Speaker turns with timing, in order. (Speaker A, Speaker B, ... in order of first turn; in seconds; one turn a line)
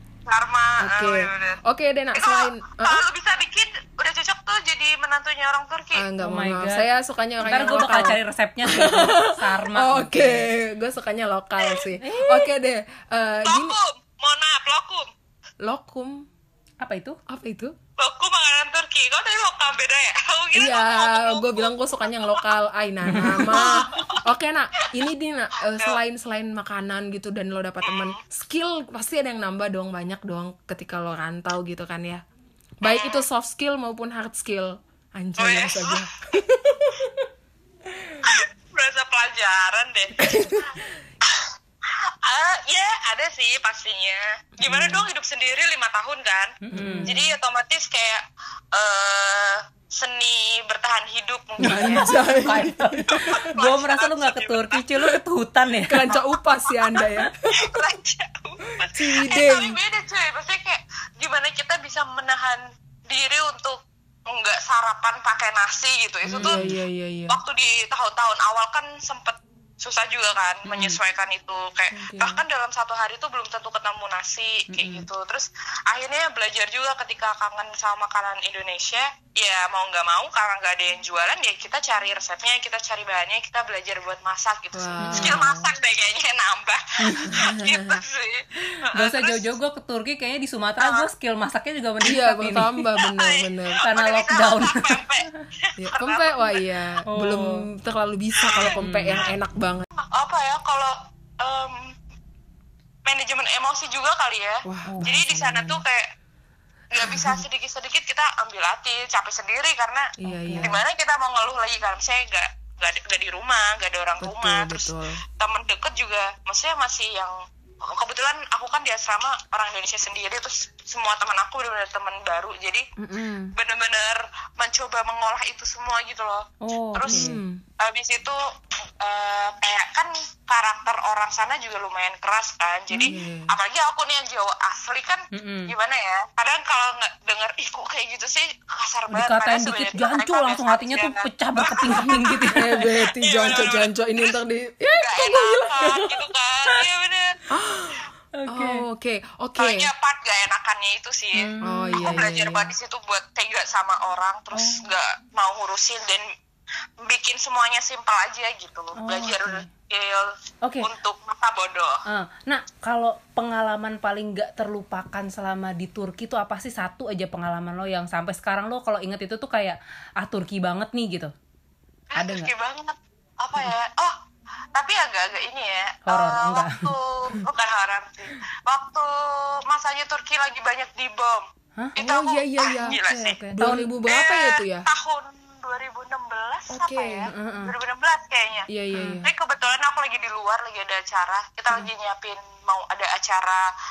Speaker A: 0.3-1.6
Speaker B: 0.8-3.0
Speaker A: 2.1-6.1
Speaker B: 5.9-13.8
Speaker C: 6.2-6.9
Speaker C: 7.4-10.4
Speaker C: 12.0-12.5
Speaker A: 13.4-15.1
Speaker B: 15.6-16.3
Speaker C: 16.8-17.2
Speaker B: 17.3-17.7
Speaker A: 18.0-22.4
Speaker B: 20.5-32.2
Speaker C: 23.1-23.7
Speaker A: 23.4-24.2
Speaker A: 27.8-28.1
Speaker B: 32.8-37.2
Speaker A: 32.8-33.2
Speaker A: 35.4-36.0
Speaker B: 37.9-38.2
Speaker A: 38.2-48.2
Speaker B: 40.2-41.0
Speaker B: 44.6-45.0
Speaker C: 46.6-47.1
Speaker B: 46.7-47.2
Speaker A: 48.7-52.2
Speaker B: 51.6-53.5
Speaker C: 51.6-56.2
Speaker A: 53.2-54.8
Speaker B: 55.9-57.8
Speaker C: 57.0-57.2
Speaker A: 57.5-63.8
Speaker B: 58.9-59.8
Speaker A: 64.3-66.6
Speaker B: 66.3-67.4
Speaker C: 66.3-66.7
Speaker A: 67.3-89.5
Speaker C: 70.7-71.0
Speaker B: 71.9-72.4
Speaker C: 74.7-75.1
Speaker B: 84.7-85.7
Speaker C: 85.0-85.4
Speaker C: 87.0-87.4
Speaker B: 87.2-88.0
Speaker C: 88.9-92.8
Speaker A: 90.8-91.1
Speaker B: 92.0-93.8
Speaker A: 93.0-96.6
Speaker C: 93.8-95.0
Speaker B: 95.8-99.9
Speaker C: 97.1-97.7
Speaker A: 98.3-98.8
Speaker C: 98.7-99.3
Speaker A: 100.0-101.9
Speaker A: 103.0-106.0
Speaker B: 104.7-105.8
Speaker C: 104.8-105.1
Speaker A: 106.9-122.8
Speaker B: 107.0-107.4
Speaker B: 110.2-110.8
Speaker C: 110.2-110.7
Speaker B: 114.2-115.2
Speaker B: 123.0-123.5
Speaker A: 123.5-128.4
Speaker C: 126.6-127.4
Speaker B: 127.1-127.6
Speaker A: 129.0-142.4
Speaker B: 132.9-133.5
Speaker C: 135.3-135.7
Speaker C: 139.1-142.9
Speaker B: 142.0-146.2
Speaker A: 143.2-144.3
Speaker A: 145.0-147.4
Speaker B: 147.5-149.9
Speaker C: 148.3-148.8
Speaker A: 149.6-156.2
Speaker C: 151.3-152.3
Speaker B: 151.6-152.7
Speaker C: 154.5-154.8
Speaker A: 157.0-162.0
Speaker C: 159.0-159.7
Speaker C: 160.6-160.9
Speaker C: 162.1-171.3
Speaker A: 172.1-174.1
Speaker C: 172.2-172.5
Speaker A: 174.7-181.4
Speaker C: 176.1-176.9
Speaker A: 181.9-183.4
Speaker B: 182.0-183.0
Speaker C: 182.8-183.9
Speaker B: 183.5-184.9
Speaker A: 184.1-188.7
Speaker B: 186.7-187.3
Speaker C: 187.3-187.7
Speaker B: 188.7-189.3
Speaker C: 188.9-189.2
Speaker A: 189.2-193.7